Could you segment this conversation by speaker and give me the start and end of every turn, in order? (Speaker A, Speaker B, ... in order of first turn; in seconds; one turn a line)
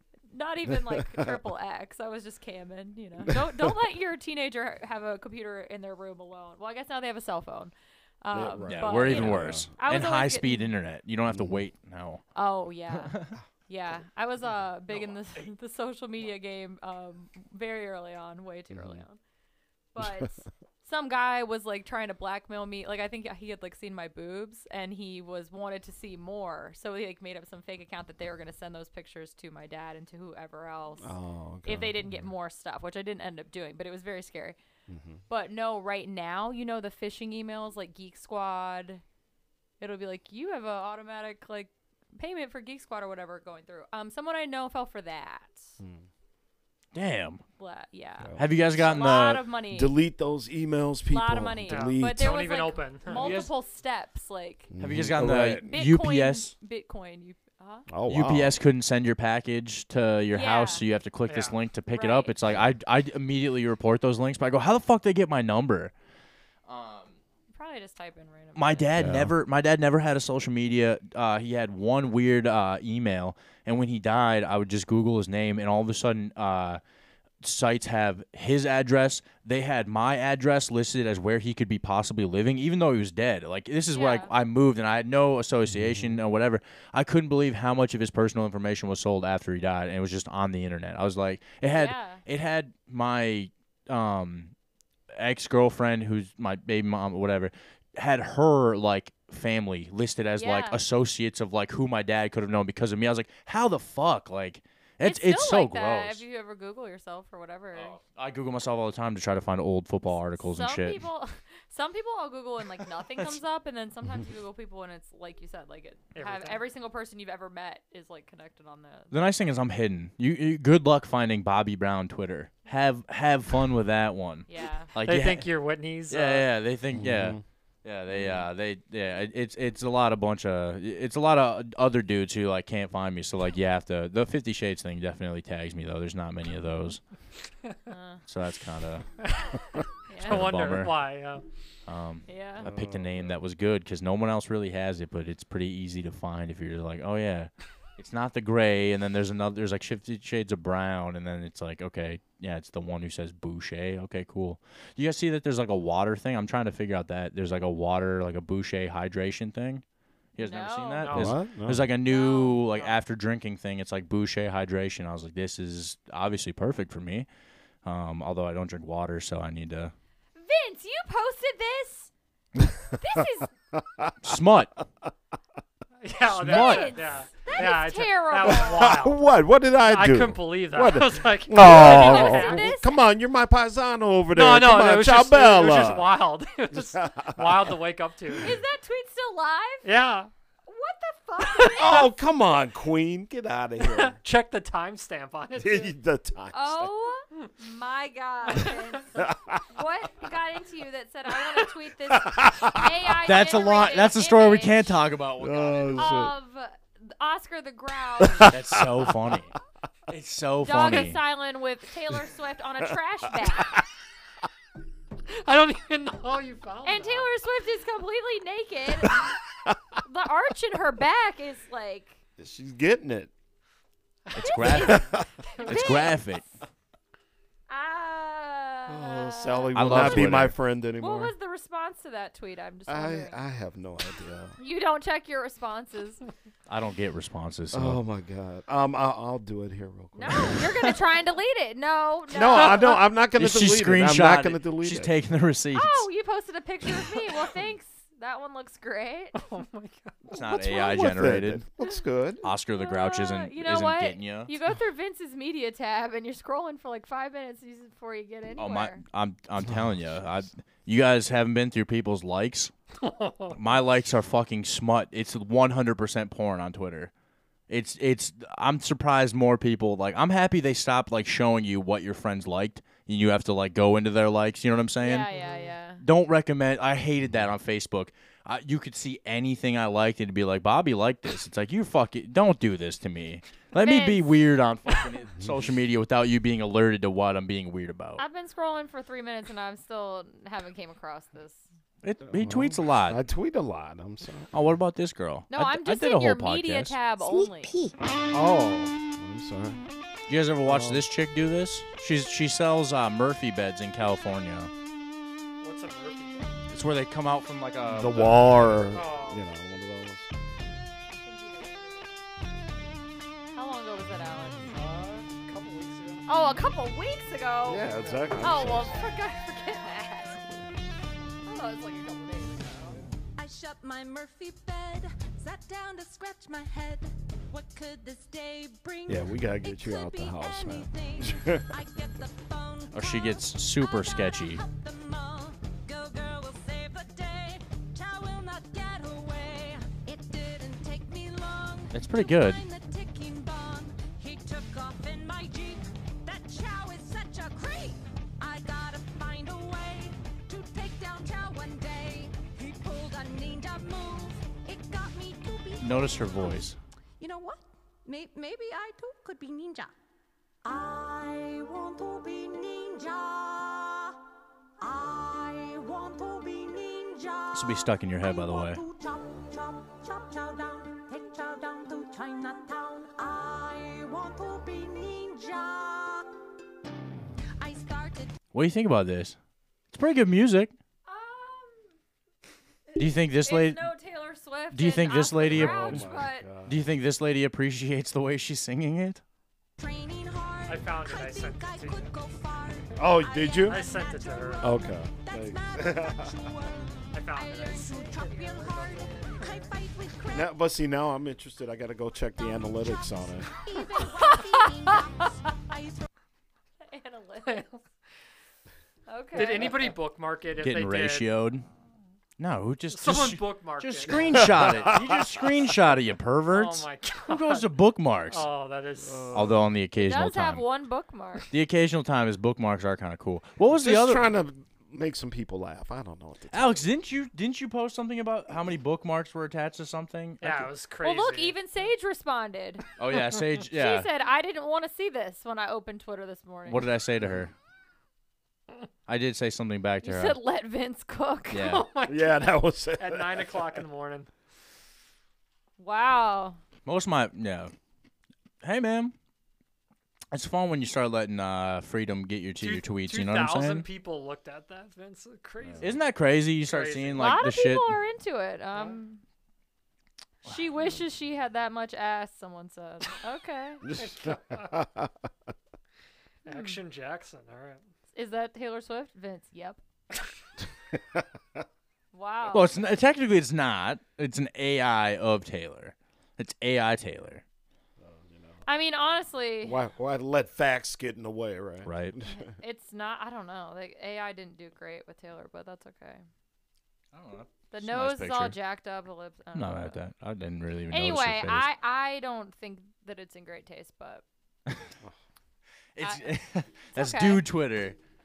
Speaker A: 0.3-10.7
Speaker B: 0.7-1.4
Speaker B: 3.2-3.7
Speaker B: 8.3-9.7
Speaker C: 8.6-12.2
Speaker B: 11.3-11.6
Speaker A: 12.3-13.2
Speaker C: 12.9-13.3
Speaker A: 13.7-19.2
Speaker B: 18.7-19.0
Speaker A: 19.9-31.1
Speaker B: 20.0-20.3
Speaker B: 31.0-32.3
Speaker A: 31.6-34.6
Speaker B: 34.9-35.2
Speaker A: 35.3-39.0
Speaker A: 39.8-45.8
Speaker B: 45.8-46.0
Speaker C: 46.9-47.4
Speaker A: 47.6-50.0
Speaker B: 48.2-48.8
Speaker C: 48.4-49.4
Speaker B: 49.7-52.4
Speaker A: 51.1-54.7
Speaker D: 51.7-53.2
Speaker C: 53.2-53.5
Speaker B: 54.7-55.7
Speaker C: 54.8-56.5
Speaker A: 55.6-57.8
Speaker B: 57.9-58.6
Speaker C: 58.1-65.9
Speaker A: 60.3-60.8
Speaker D: 61.2-61.5
Speaker A: 61.9-62.4
Speaker C: 66.7-67.1
Speaker A: 67.5-68.9
Speaker C: 68.5-76.8
Speaker B: 68.9-69.3
Speaker C: 77.4-94.5
Speaker A: 83.9-84.3
Speaker B: 85.7-86.2
Speaker A: 91.7-92.2
Speaker C: 95.1-106.2
Speaker A: 100.4-100.8
Speaker A: 105.0-108.0
Speaker C: 107.7-111.0
Speaker A: 110.3-119.2
Speaker D: 116.1-116.6
Speaker C: 119.1-125.5
Speaker A: 124.5-124.9
Speaker D: 125.0-126.5
Speaker C: 126.1-137.0
Speaker B: 126.9-127.4
Speaker A: 137.9-138.2
Speaker C: 138.3-139.1
Speaker D: 139.2-139.6
Speaker A: 140.1-140.5
Speaker D: 140.2-141.4
Speaker C: 140.2-140.9
Speaker C: 141.9-159.8
Speaker A: 142.3-142.7
Speaker B: 142.6-143.4
Speaker C: 160.3-167.3
Speaker A: 160.4-161.2
Speaker D: 161.0-161.3
Speaker B: 161.1-161.9
Speaker A: 162.1-162.9
Speaker C: 167.8-169.9
Speaker A: 170.3-172.1
Speaker B: 172.9-174.1
Speaker A: 172.9-173.5
Speaker C: 174.2-174.7
Speaker D: 176.0-179.2
Speaker C: 176.3-177.0
Speaker A: 176.4-178.9
Speaker B: 178.4-186.1
Speaker D: 179.8-182.6
Speaker A: 181.5-183.0
Speaker D: 184.3-188.5
Speaker B: 186.7-187.8
Speaker A: 188.4-189.9
Speaker D: 189.8-190.3
Speaker A: 190.6-192.1
Speaker B: 191.6-194.2
Speaker D: 193.9-195.9
Speaker B: 195.6-196.9
Speaker A: 196.5-199.1
Speaker B: 199.2-199.6
Speaker A: 199.7-205.0
Speaker B: 202.1-202.9
Speaker C: 203.2-206.2
Speaker B: 205.4-206.3
Speaker A: 205.9-208.5
Speaker B: 208.2-209.3
Speaker C: 208.5-209.5
Speaker C: 210.1-211.2
Speaker A: 210.6-213.8
Speaker B: 213.4-213.8
Speaker D: 215.3-217.3
Speaker A: 216.8-219.3
Speaker B: 219.0-219.7
Speaker A: 220.0-222.2
Speaker B: 222.4-223.3
Speaker D: 224.3-225.9
Speaker C: 224.3-225.0
Speaker A: 224.4-226.4
Speaker C: 225.6-226.4
Speaker A: 227.7-230.2
Speaker B: 228.9-231.3
Speaker C: 229.7-230.5
Speaker A: 231.0-233.4
Speaker B: 232.9-234.6
Speaker A: 234.6-236.2
Speaker C: 236.7-238.0
Speaker B: 237.7-240.8
Speaker A: 240.1-243.0
Speaker B: 242.3-245.1
Speaker C: 243.3-246.1
Speaker A: 245.7-249.5
Speaker D: 249.3-250.2
Speaker C: 250.3-251.6
Speaker B: 250.6-252.5
Speaker C: 252.4-254.5
Speaker A: 252.7-259.0
Speaker C: 258.6-262.7
Speaker D: 263.0-263.6
Speaker C: 263.5-267.1
Speaker C: 267.7-275.3
Speaker A: 275.0-276.0
Speaker D: 275.4-275.6
Speaker C: 276.0-288.2
Speaker A: 283.8-285.1
Speaker A: 288.2-291.7
Speaker C: 292.0-293.2
Speaker B: 292.3-294.5
Speaker C: 294.5-297.0
Speaker A: 295.5-297.8
Speaker B: 298.3-299.8
Speaker C: 300.3-304.7
Speaker B: 300.6-301.1
Speaker D: 305.6-306.5
Speaker C: 306.7-308.8
Speaker B: 307.9-310.3
Speaker D: 308.9-309.4
Speaker A: 311.1-312.2
Speaker A: 313.5-314.8
Speaker D: 314.7-316.2
Speaker A: 316.3-320.4
Speaker B: 317.7-318.9
Speaker D: 318.0-318.3
Speaker A: 321.4-323.0
Speaker E: 323.4-359.9
Speaker B: 329.1-331.7
Speaker C: 332.9-334.6
Speaker C: 341.9-342.6
Speaker C: 355.8-356.8
Speaker E: 360.6-364.1
Speaker E: 364.8-376.2
Speaker C: 367.5-368.8
Speaker E: 377.6-378.3
Speaker C: 378.5-379.4
Speaker C: 379.9-380.7
Speaker A: 381.1-381.8
Speaker A: 382.9-386.5
Speaker C: 383.0-383.9
Speaker C: 384.7-386.1
Speaker B: 385.5-386.8
Speaker C: 386.6-389.2
Speaker E: 389.8-400.5
Speaker D: 390.6-392.2
Speaker B: 392.9-393.9
Speaker D: 393.6-394.7
Speaker B: 394.6-396.3
Speaker D: 397.1-397.9
Speaker A: 397.8-399.7
Speaker D: 398.5-399.5
Speaker B: 400.3-403.5
Speaker E: 402.4-406.1
Speaker A: 404.2-404.5
Speaker A: 406.9-407.7
Speaker D: 407.4-407.8
Speaker A: 409.1-409.9
Speaker D: 409.3-411.3
Speaker C: 410.6-411.6
Speaker C: 412.4-418.5
Speaker D: 412.9-415.5
Speaker D: 416.5-417.6
Speaker D: 418.3-419.4
Speaker B: 419.0-419.6
Speaker C: 419.3-420.7
Speaker A: 420.0-421.5
Speaker C: 421.5-424.3
Speaker B: 423.7-426.9
Speaker C: 426.5-430.7
Speaker D: 430.4-431.6
Speaker A: 431.0-432.8
Speaker C: 433.0-434.1
Speaker A: 433.7-436.9
Speaker C: 436.7-437.5
Speaker C: 439.1-440.4
Speaker A: 440.0-441.8
Speaker C: 441.5-441.9
Speaker D: 441.6-442.4
Speaker B: 442.1-443.8
Speaker D: 443.0-444.3
Speaker A: 445.8-446.6
Speaker C: 446.9-447.7
Speaker C: 448.6-449.1
Speaker C: 450.3-453.9
Speaker D: 452.6-456.0
Speaker C: 455.8-457.9
Speaker D: 456.6-457.3
Speaker A: 457.1-459.2
Speaker A: 460.4-463.8
Speaker D: 463.9-464.8
Speaker B: 464.7-465.2
Speaker D: 466.4-467.8
Speaker A: 466.5-466.8
Speaker A: 468.1-469.8
Speaker B: 470.9-471.2
Speaker A: 472.1-472.7
Speaker C: 472.5-477.4
Speaker B: 478.0-478.6
Speaker A: 478.6-479.8
Speaker B: 479.6-482.4
Speaker C: 481.8-482.2
Speaker A: 482.3-486.2
Speaker C: 487.1-488.6
Speaker A: 487.7-490.0
Speaker C: 489.5-491.7
Speaker A: 490.9-494.2
Speaker C: 495.9-498.0
Speaker A: 496.0-496.3
Speaker A: 496.9-497.4